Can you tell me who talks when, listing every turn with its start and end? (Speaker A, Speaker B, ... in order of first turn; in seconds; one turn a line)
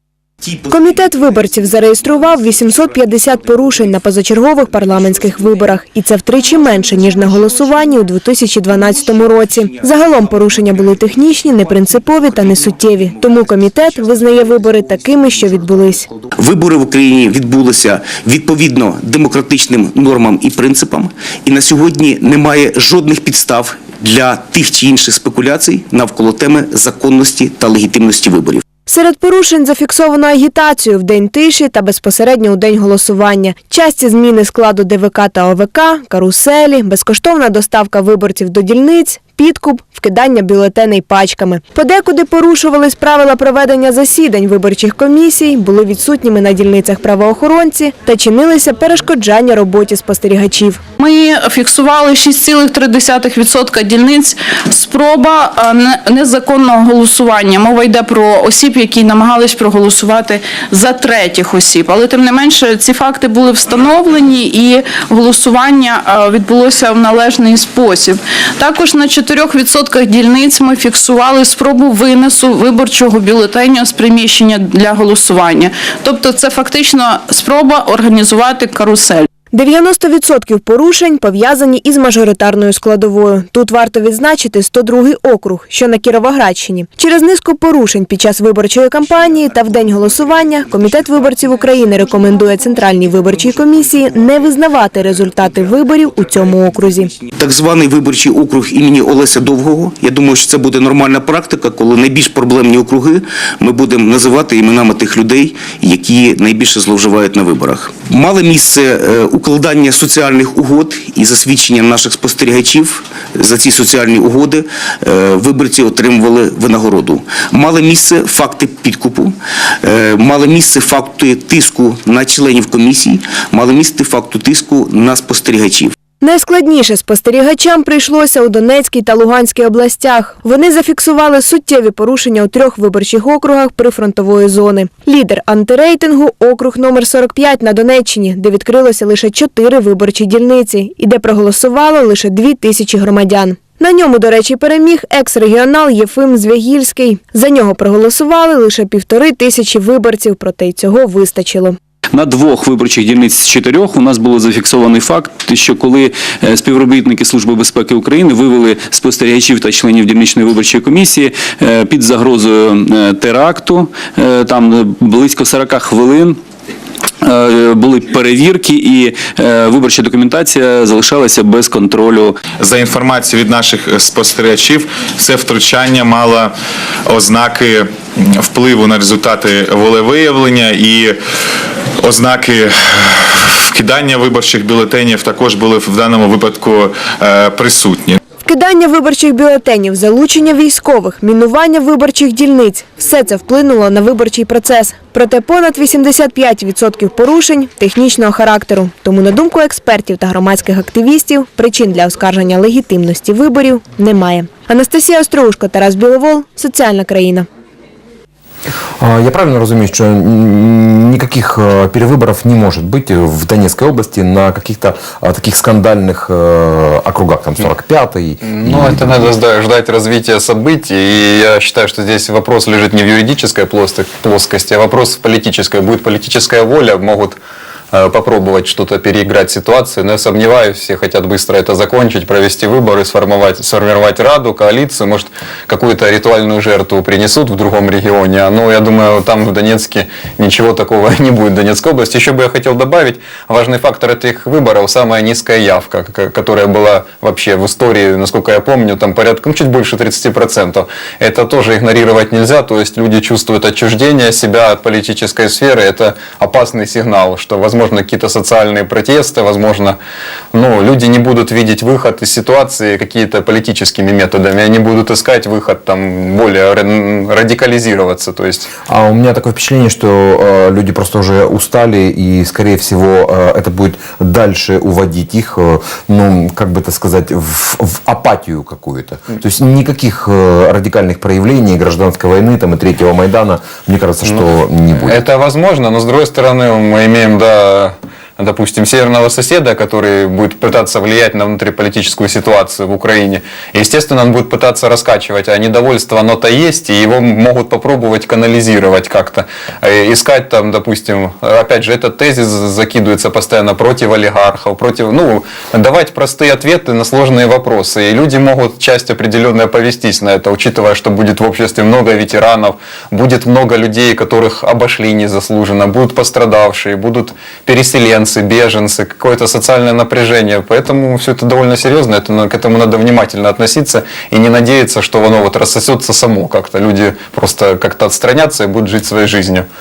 Speaker A: 0.4-1.6
Speaker B: 0.7-16.1
Speaker A: 2.2-3.9
Speaker A: 5.2-5.5
Speaker A: 6.9-7.8
Speaker A: 9.6-10.7
Speaker A: 11.9-15.8
Speaker A: 16.4-28.6
Speaker B: 28.9-50.8
Speaker C: 51.0-79.3
Speaker B: 79.5-97.1
Speaker A: 97.2-125.9
Speaker B: 126.2-151.8
Speaker D: 152.1-166.4
Speaker D: 167.2-172.4
Speaker E: 172.6-176.5
Speaker E: 177.1-181.2
Speaker E: 182.0-188.2
Speaker B: 188.4-207.4
Speaker F: 209.0-219.3
Speaker G: 218.4-227.4
Speaker G: 227.9-260.0
Speaker G: 260.5-268.7
Speaker F: 268.9-285.2
Speaker G: 285.0-329.6